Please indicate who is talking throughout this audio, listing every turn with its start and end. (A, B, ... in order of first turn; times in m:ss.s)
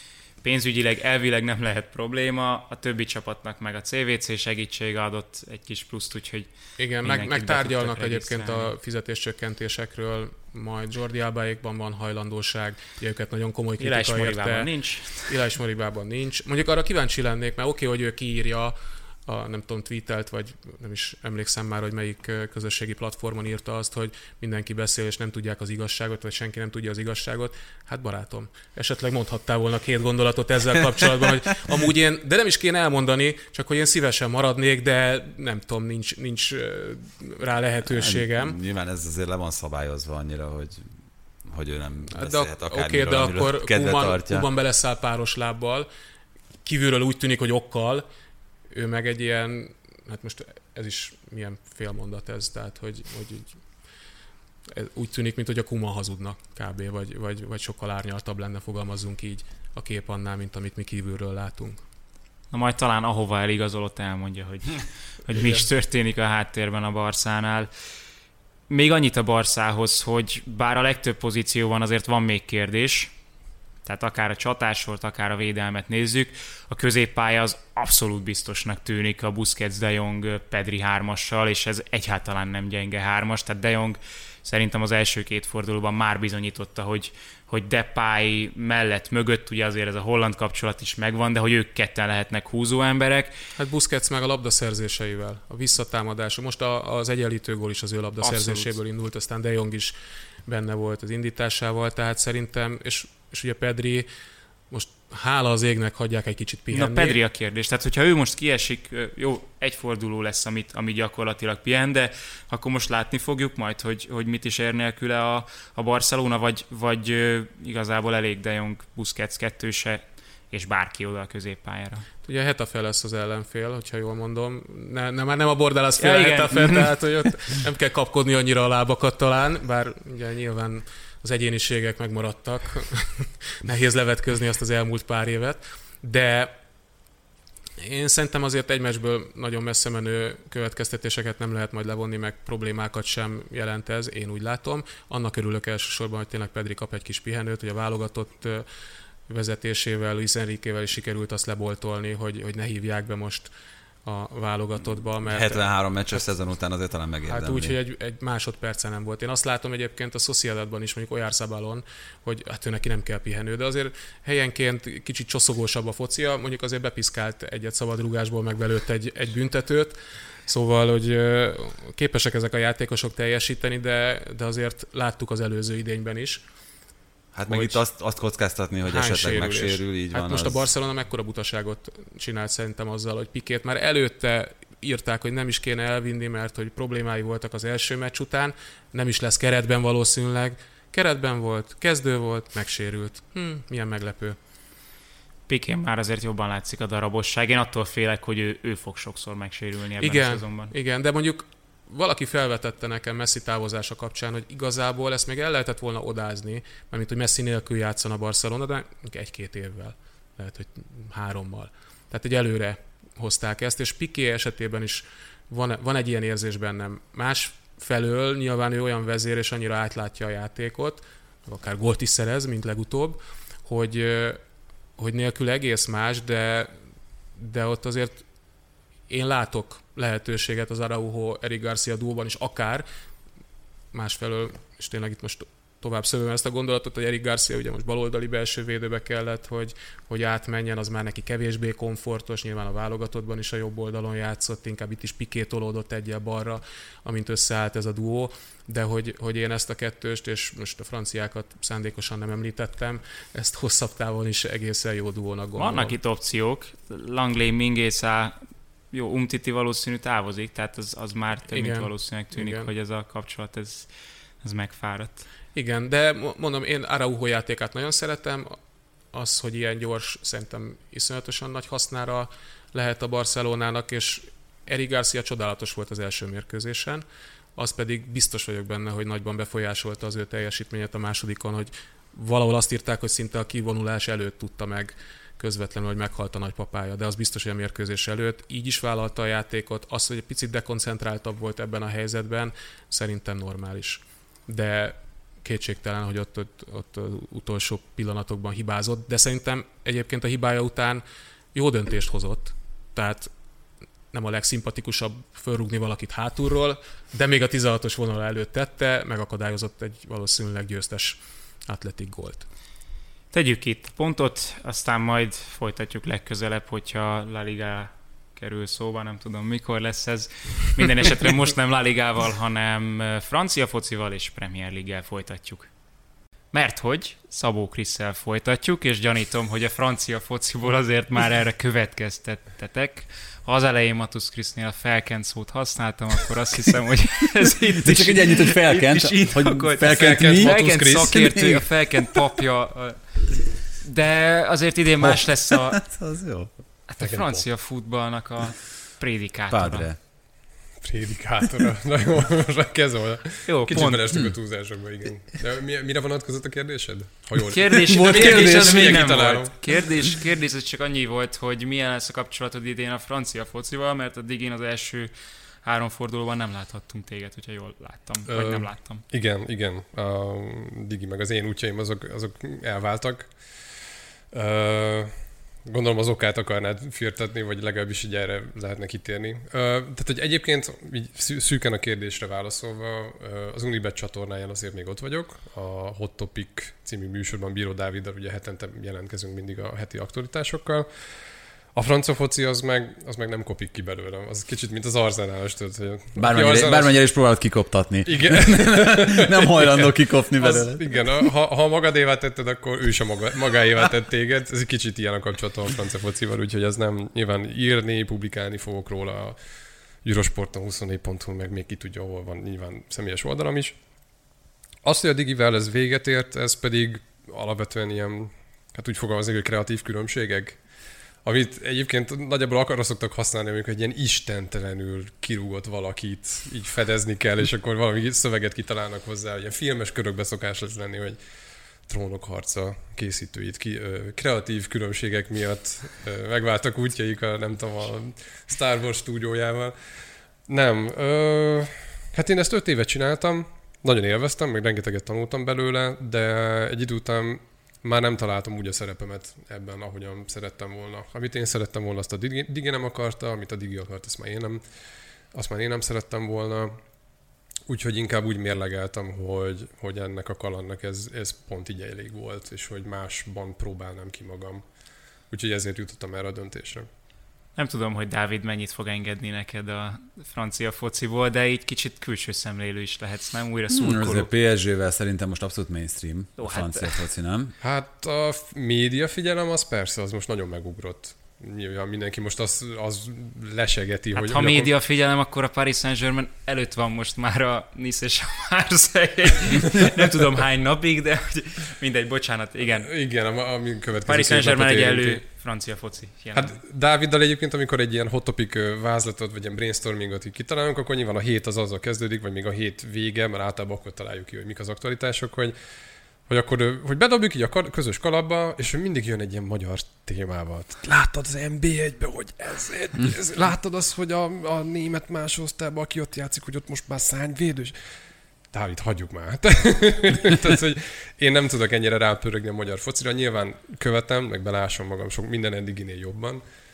0:00.4-0:06.5 A
0:06.8-0:14.7 B
0:07.0-0:08.7 A
0:13.8-0:15.4 A
0:15.2-0:18.8 B
0:19.3-0:38.6 B
0:37.8-0:40.9 C
0:41.5-0:44.5 C
0:42.1-0:45.9 B
0:46.6-0:48.1 B
0:48.7-0:53.6 B
0:54.7-1:01.8 B
1:02.5-1:07.7 A
1:08.7-1:13.1 A
1:13.8-1:33.4 A
1:33.6-1:39.9 B
1:38.2-1:38.7 A
1:40.5-1:44.1 B
1:44.7-1:47.2 B
1:46.7-2:02.0 A
2:02.2-2:16.5 B
2:06.0-2:06.9 A
2:17.8-2:28.7 B
2:29.3-2:33.5 B
2:34.0-2:35.6 B
2:35.2-2:37.8 C
2:37.3-2:56.4 B
2:57.3-3:00.7 C
2:57.5-2:57.8 B
2:58.9-3:14.4 B
3:15.5-3:20.7 A
3:20.0-3:44.4 B
3:45.0-3:46.7 B
3:47.4-3:48.2 B
3:49.1-3:52.9 B
3:53.9-4:16.0 B
4:15.6-4:18.4 A
4:18.9-4:23.9 A
4:21.5-4:22.7 B
4:24.4-4:25.2 A
4:25.5-4:28.6 B
4:29.1-4:37.0 B
4:37.6-5:01.0 B
5:01.5-5:03.3 B
5:04.1-5:12.5 B
5:13.3-5:25.7 A
5:26.5-5:43.2 A
5:37.8-5:41.6 C
5:39.8-5:41.2 D
5:43.8-5:45.8 A
5:45.0-5:46.5 C
5:46.9-5:49.9 A
5:47.0-5:47.5 D
5:49.5-5:50.0 C
5:50.8-5:59.5 D
5:53.5-5:54.1 A
5:57.5-6:05.1 A
5:57.9-5:59.1 C
6:05.6-6:09.0 A
6:08.3-6:13.3 D
6:14.3-6:15.1 D
6:15.7-6:30.9 D
6:31.7-6:37.0 D
6:36.2-6:40.8 C
6:38.1-6:49.4 D
6:50.0-6:53.8 D
6:54.8-7:00.6 D
7:01.2-7:11.2 D
7:11.9-7:19.8 D
7:20.5-7:34.6 D
7:35.3-7:36.8 D
7:37.7-7:44.6 D
7:45.3-7:46.9 D
7:47.6-7:54.3 A
7:53.7-7:57.5 C
7:56.4-7:57.0 A
7:57.6-8:04.7 D
8:04.1-8:12.9 A
8:12.8-8:15.2 D
8:14.1-8:16.5 A
8:16.3-8:25.6 D
8:26.3-8:37.8 D
8:38.5-8:46.4 D